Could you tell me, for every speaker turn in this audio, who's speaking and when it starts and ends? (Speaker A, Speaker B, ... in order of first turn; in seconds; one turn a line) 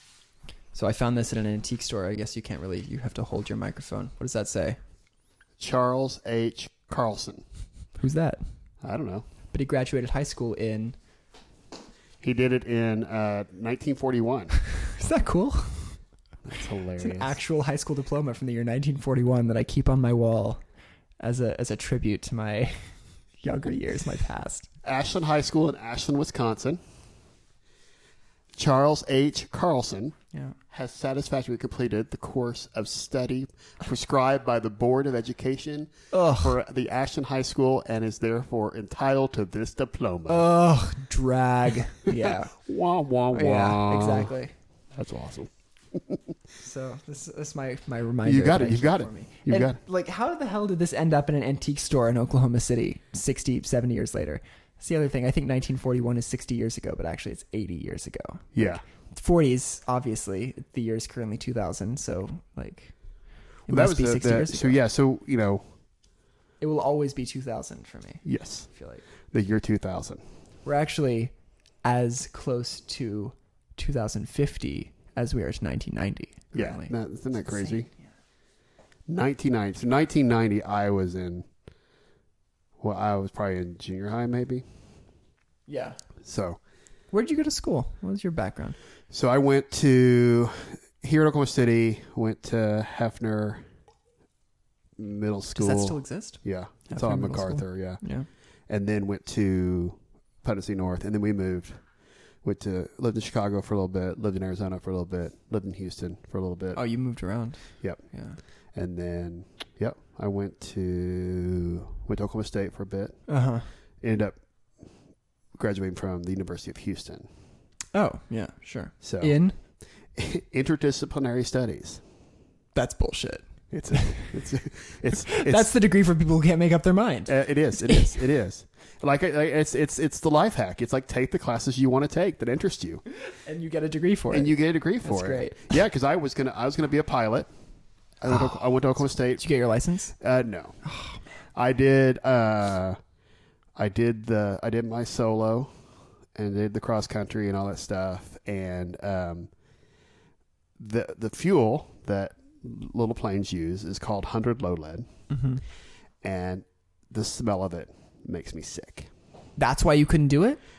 Speaker A: 0.7-4.8
Speaker B: 5.6-7.5
Speaker A: 8.0-8.4
Speaker B: 8.8-9.3
Speaker A: 9.5-11.0
Speaker B: 12.2-14.6
Speaker A: 14.8-16.0
Speaker B: 16.4-17.4
Speaker A: 17.0-20.6
Speaker A: 21.2-22.9
Speaker A: 23.4-24.7
Speaker B: 24.8-26.8
Speaker B: 28.6-30.2
Speaker B: 30.7-40.5
Speaker A: 36.1-36.6
Speaker A: 40.3-42.5
Speaker B: 42.1-44.3
Speaker A: 43.3-44.5
Speaker B: 44.9-46.2
Speaker A: 46.6-62.9
Speaker B: 48.2-49.8
Speaker B: 58.5-58.8
Speaker A: 63.7-64.8
Speaker B: 63.7-65.7
Speaker A: 66.6-69.0
Speaker B: 68.2-68.7
Speaker B: 69.3-70.2
Speaker A: 70.7-71.3
Speaker A: 71.8-77.9
Speaker B: 76.5-77.9
Speaker B: 79.1-81.5
Speaker B: 82.8-84.7
Speaker A: 85.7-86.0
Speaker B: 86.2-86.6
Speaker A: 87.1-88.8
Speaker B: 89.1-93.6
Speaker B: 95.0-98.0
Speaker A: 95.6-98.3
Speaker B: 98.7-101.8
Speaker B: 102.4-106.8
Speaker A: 106.8-108.4
Speaker B: 108.8-113.2
Speaker A: 113.3-113.7
Speaker B: 114.0-114.4
Speaker B: 115.5-117.3
Speaker A: 117.9-119.6
Speaker B: 119.0-119.3
Speaker B: 120.2-122.0
Speaker A: 122.8-124.3
Speaker B: 123.7-125.7
Speaker A: 125.2-128.2
Speaker B: 127.3-133.0
Speaker A: 133.2-135.7
Speaker B: 134.3-137.5
Speaker B: 138.2-139.4
Speaker A: 138.3-138.6
Speaker A: 139.3-140.1
Speaker B: 140.2-140.8
Speaker A: 140.8-141.2
Speaker B: 141.6-143.0
Speaker B: 143.8-145.7
Speaker B: 146.3-149.5
Speaker B: 150.8-155.1
Speaker A: 155.3-155.6
Speaker B: 156.2-159.1
Speaker A: 159.6-160.6